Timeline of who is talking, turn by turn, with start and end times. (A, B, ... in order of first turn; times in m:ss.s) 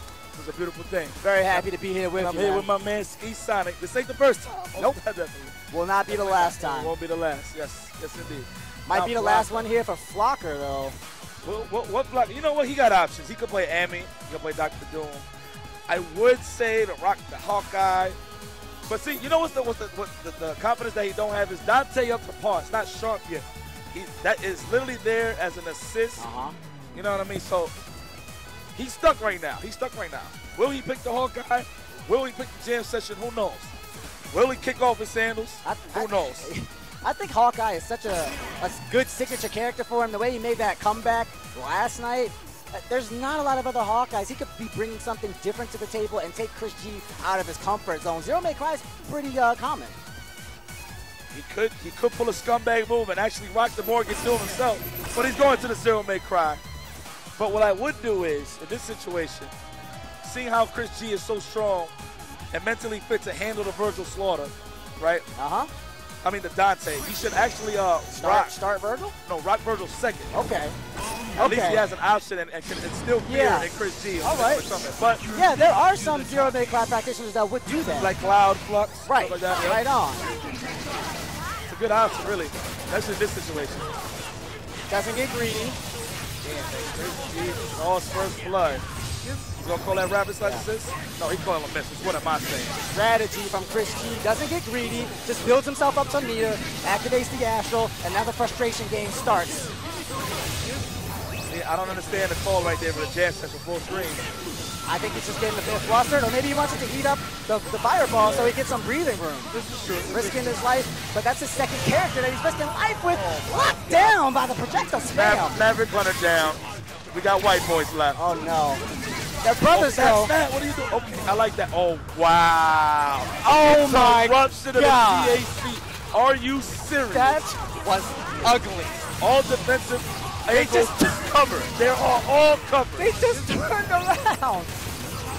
0:00.3-0:01.6 A
0:01.2-0:02.7 B
0:02.2-0:05.6 A
0:05.7-0:06.9 B
0:06.1-0:09.7 A
0:08.9-0:11.0 B
0:11.4-0:15.2 A
0:15.9-0:18.2 A
0:18.9-0:26.2 A
0:26.2-0:26.5 B
0:26.9-0:27.7 A
0:28.7-0:33.7 A
0:34.3-0:36.5 A
0:35.6-0:50.0 B
0:51.3-0:56.6 A
0:57.4-0:59.5 A
1:00.2-1:01.9 A
1:02.5-1:05.3 A
1:05.4-1:05.7 B
1:06.2-1:08.6 A
1:08.2-1:09.1 B
1:09.2-1:10.3 A
1:10.3-1:10.8 B
1:11.3-1:11.8 B
1:11.4-1:15.2 A
1:13.2-1:13.7 B
1:14.2-1:14.6 B
1:15.3-1:18.1 B
1:18.0-1:19.8 A
1:19.1-1:20.3 B
1:21.7-1:23.9 A
1:24.9-1:25.8 B
1:26.4-1:28.8 A
1:29.6-1:32.8 A
1:32.9-1:39.7 B
1:41.5-1:44.2 A
1:44.8-1:49.6 B
1:48.2-1:48.6 A
1:49.5-1:50.6 A
1:50.1-1:55.6 B
1:53.1-1:54.2 A
1:55.1-1:58.2 A
1:58.2-1:58.8 B
1:59.4-2:00.3 B
1:59.7-2:07.4 A
2:03.4-2:05.4 B
2:07.1-2:09.0 B
2:09.2-2:13.1 A
2:10.5-2:11.1 B
2:13.0-2:14.7 B